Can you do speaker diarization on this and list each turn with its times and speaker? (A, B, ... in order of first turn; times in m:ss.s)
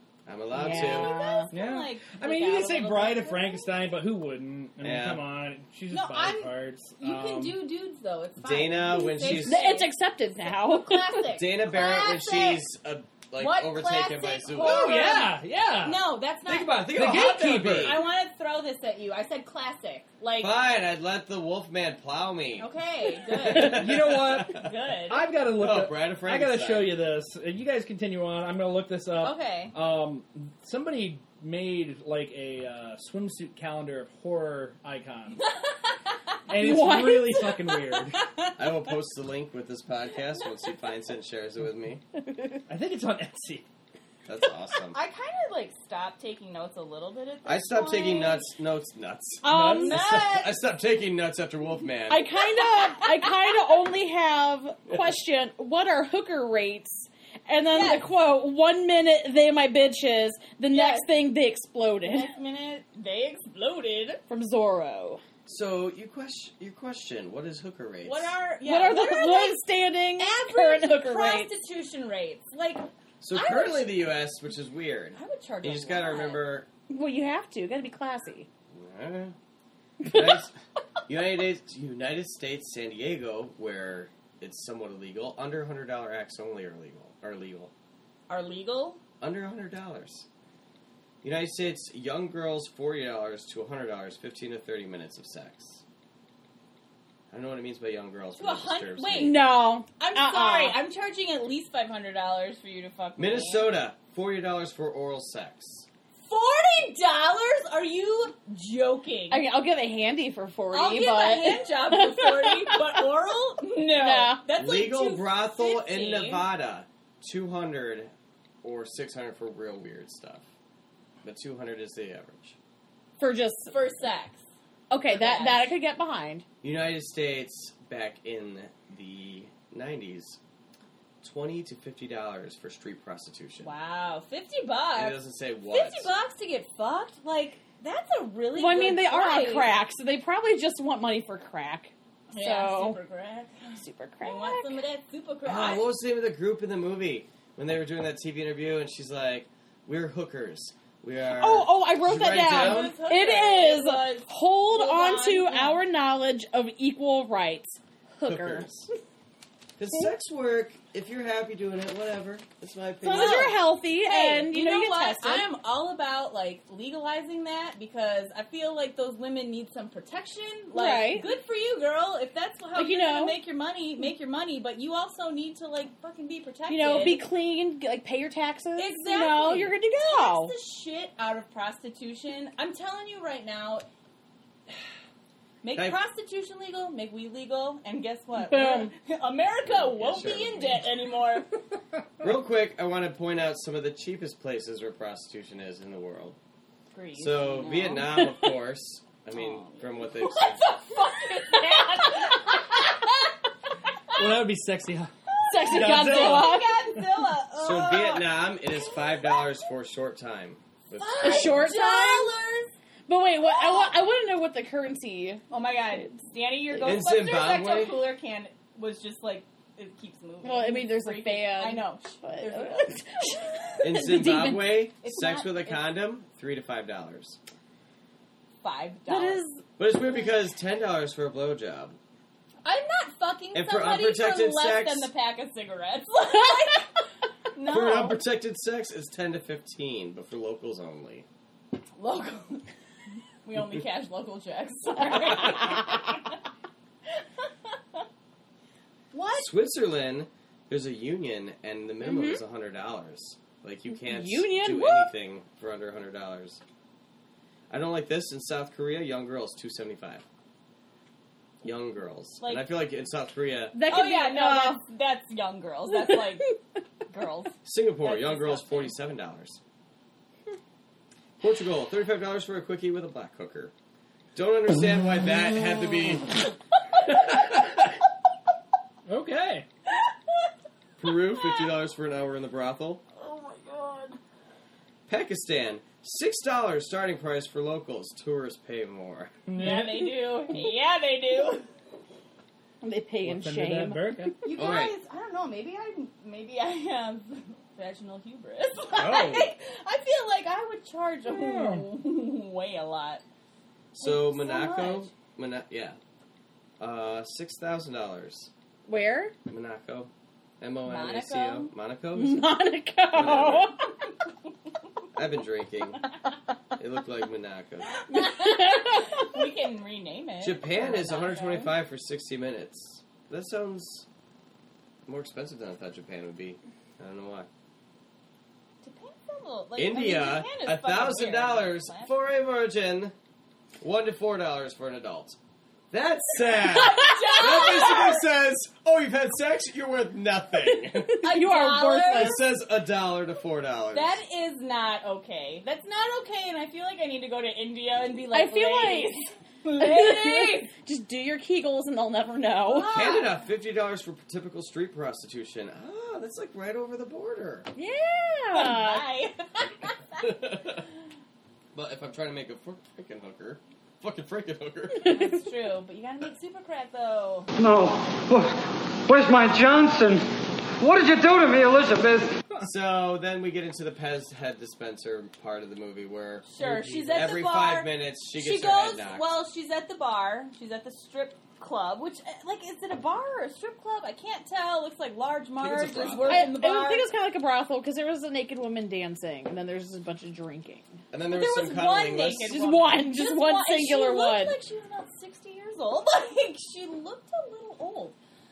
0:00.3-0:01.2 A
0:00.5-0:01.5 B
0:00.8-0:03.7 C
0:01.5-0:07.6 D
0:04.8-0:05.2 A
0:05.9-0:09.9 C
0:08.4-0:09.6 A
0:09.2-0:11.3 B
0:10.4-0:12.6 C
0:11.3-0:15.3 A
0:13.4-0:20.6 C
0:14.6-0:16.0 D
0:16.5-0:18.0 A
0:16.9-0:18.0 D
0:20.4-0:22.7 A
0:22.6-0:25.3 C
0:23.4-0:24.7 A
0:23.4-0:35.4 D
0:25.5-0:27.0 A
0:29.2-0:29.8 C
0:36.5-0:38.2 D
0:36.6-0:37.7 B
0:38.2-0:38.5 C
0:38.6-0:42.0 A
0:42.7-0:43.6 D
0:44.3-0:45.0 A
0:44.9-0:48.5 C
0:47.4-0:52.3 A
0:49.4-0:50.0 B
0:49.5-0:50.0 D
0:49.6-0:50.6 C
0:52.1-1:02.3 B
0:52.4-0:53.5 C
0:57.7-0:58.1 C
1:00.7-1:01.1 C
1:02.0-1:04.2 C
1:04.3-1:05.2 B
1:05.5-1:08.4 A
1:08.0-1:09.6 C
1:08.6-1:11.5 B
1:10.2-1:14.1 C
1:13.2-1:16.7 A
1:15.1-1:16.4 C
1:16.9-1:18.5 B
1:18.7-1:19.4 A
1:20.0-1:20.4 B
1:20.0-1:27.7 A
1:28.3-1:29.0 C
1:29.2-1:30.3 A
1:31.2-1:35.8 A
1:37.3-1:39.4 A
1:38.4-1:43.7 C
1:39.2-1:40.8 B
1:43.2-1:45.9 A
1:46.3-1:49.5 C
1:49.3-1:52.9 B
1:50.7-1:56.5 C
1:53.9-1:54.4 B
1:54.6-1:58.1 A
1:58.6-2:00.5 A
2:01.2-2:02.6 A
2:03.2-2:03.8 B
2:03.7-2:04.4 C
2:04.9-2:06.4 B
2:05.1-2:05.7 C
2:06.6-2:10.4 A
2:11.2-2:13.7 A
2:13.6-2:19.7 C
2:15.0-2:16.1 A
2:18.5-2:23.0 B
2:22.3-2:25.9 C
2:23.8-2:24.8 B
2:25.4-2:33.0 A
2:31.3-2:38.7 B
2:32.4-2:35.8 C
2:38.2-2:38.9 A
2:39.8-2:43.6 A
2:43.0-2:45.5 B
2:43.1-2:57.2 C
2:50.7-2:51.3 B
2:52.8-2:53.4 B
2:56.7-3:00.5 B
2:58.8-3:03.8 C
3:05.6-3:11.6 C
3:08.4-3:08.9 B
3:09.6-3:10.9 A
3:12.2-3:16.4 A
3:16.9-3:18.3 C
3:17.2-3:20.8 A
3:19.3-3:23.2 C
3:21.4-3:22.5 B
3:24.1-3:25.1 D
3:25.3-3:29.3 C
3:25.5-3:27.0 B
3:25.6-3:26.8 D
3:27.6-3:31.7 A
3:30.9-3:32.7 C
3:31.2-3:32.3 B
3:33.1-3:35.4 B
3:33.4-3:34.0 C
3:35.5-3:43.3 C
3:36.8-3:38.0 A
3:40.4-3:44.8 B
3:43.8-3:47.4 A
3:45.0-3:45.8 C
3:48.6-3:49.4 C
3:49.1-3:49.6 B
3:49.8-3:52.0 A
3:52.6-3:56.9 C
3:53.5-3:55.1 A
3:57.5-3:58.2 C
3:57.7-4:01.3 A
4:02.0-4:02.7 C
4:03.4-4:06.3 C
4:09.1-4:09.5 C
4:09.3-4:16.6 A
4:12.0-4:12.4 B
4:13.9-4:15.1 B
4:17.7-4:20.2 A
4:21.6-4:23.8 A
4:22.4-4:22.7 C
4:23.7-4:24.8 B
4:23.9-4:26.6 C
4:26.0-4:26.3 B
4:27.1-4:29.0 C
4:27.6-4:29.6 A
4:31.4-4:33.7 A
4:34.4-4:36.5 A
4:37.0-4:37.9 D
4:39.1-4:39.7 D
4:41.0-4:43.0 A
4:43.2-4:44.2 C
4:45.1-4:49.4 A
4:49.5-4:50.2 D
4:49.6-4:51.7 C
4:52.8-4:54.3 B
4:53.2-4:54.4 D
4:54.4-5:03.2 C
4:54.6-4:55.0 A
4:59.0-4:59.5 A
5:01.3-5:01.9 D
5:04.0-5:06.0 A
5:04.0-5:05.1 C
5:06.8-5:08.5 A
5:08.9-5:09.4 B
5:09.5-5:12.5 A
5:10.8-5:11.7 C
5:12.2-5:13.9 B
5:13.1-5:13.8 A
5:15.1-5:16.0 A
5:16.8-5:18.0 A
5:18.1-5:21.8 C
5:18.1-5:19.3 B
5:20.4-5:24.1 A
5:25.1-5:27.5 A
5:28.8-5:32.1 C
5:29.8-5:33.1 A
5:33.8-5:35.4 A
5:35.9-5:41.3 A
5:36.6-5:38.3 C
5:40.6-5:42.4 B
5:41.2-5:42.4 C
5:42.1-5:44.2 A
5:43.9-5:50.7 C
5:48.3-5:53.1 B
5:52.7-5:53.4 C
5:52.7-5:57.7 A
5:57.8-5:59.0 B
5:58.5-6:00.3 C
6:00.2-6:00.9 A
6:01.7-6:05.2 A
6:05.0-6:07.5 C
6:05.1-6:05.4 B
6:07.6-6:10.3 E
6:10.8-6:12.4 E
6:12.6-6:16.5 A
6:16.5-6:27.1 C
6:16.6-6:17.3 D
6:17.1-6:19.2 A
6:25.6-6:26.5 A
6:26.3-6:31.0 B
6:31.1-6:32.5 A
6:31.3-6:38.2 C
6:32.5-6:34.6 B